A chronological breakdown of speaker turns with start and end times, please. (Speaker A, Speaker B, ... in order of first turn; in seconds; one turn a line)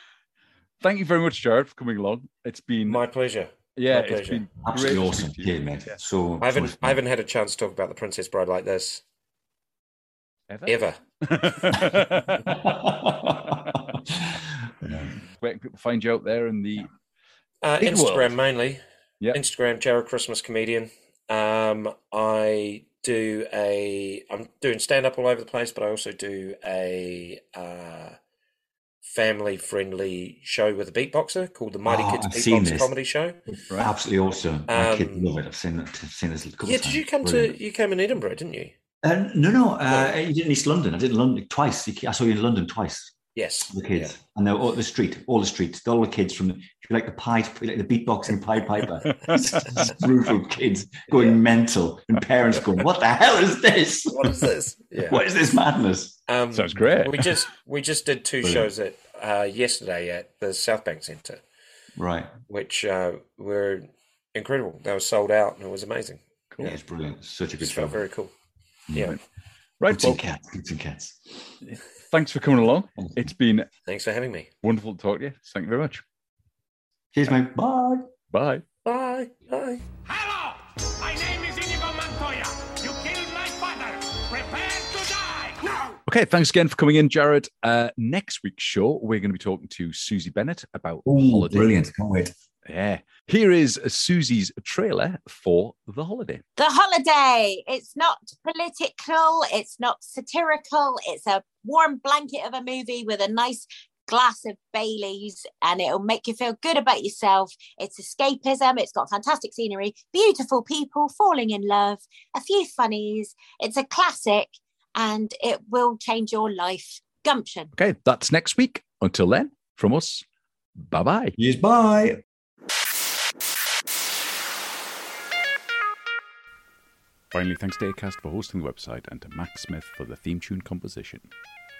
Speaker A: 0.8-3.0
Speaker B: 2.9-4.4
Speaker A: 3.7-6.0
Speaker C: 4.6-7.0
Speaker B: 6.4-9.0
Speaker A: 10.5-12.7
Speaker B: 10.7-11.8
Speaker C: 12.5-15.1
Speaker A: 13.5-13.8
Speaker A: 15.4-16.9
Speaker B: 17.6-18.8
Speaker A: 17.8-18.4
Speaker B: 19.3-28.1
Speaker B: 29.0-33.4
Speaker C: 31.9-32.9
Speaker A: 33.7-33.9
Speaker C: 33.8-37.5
Speaker B: 34.7-35.3
Speaker B: 36.6-38.7
Speaker C: 39.0-43.1
Speaker B: 39.9-40.1
Speaker B: 43.3-44.1
Speaker C: 43.7-54.4
Speaker A: 49.1-50.0
Speaker B: 51.1-51.4
Speaker B: 54.1-55.2
Speaker C: 55.1-56.2
Speaker B: 56.3-61.4
Speaker A: 56.5-57.3
Speaker C: 58.4-58.7
Speaker C: 62.0-62.3
Speaker B: 62.5-66.2
Speaker C: 66.6-68.0
Speaker B: 67.6-68.3
Speaker C: 68.9-69.1
Speaker A: 69.8-70.2
Speaker C: 69.9-71.5
Speaker A: 71.6-73.7
Speaker B: 73.9-74.5
Speaker A: 74.6-76.0
Speaker C: 77.1-78.1
Speaker A: 78.3-78.6
Speaker B: 78.8-79.8
Speaker D: 80.0-86.0
Speaker A: 86.0-91.7
Speaker C: 91.0-92.3
Speaker A: 92.7-96.4
Speaker E: 96.6-117.7
Speaker A: 117.7-120.2
Speaker A: 120.8-121.3
Speaker C: 121.4-122.2
Speaker A: 127.3-131.3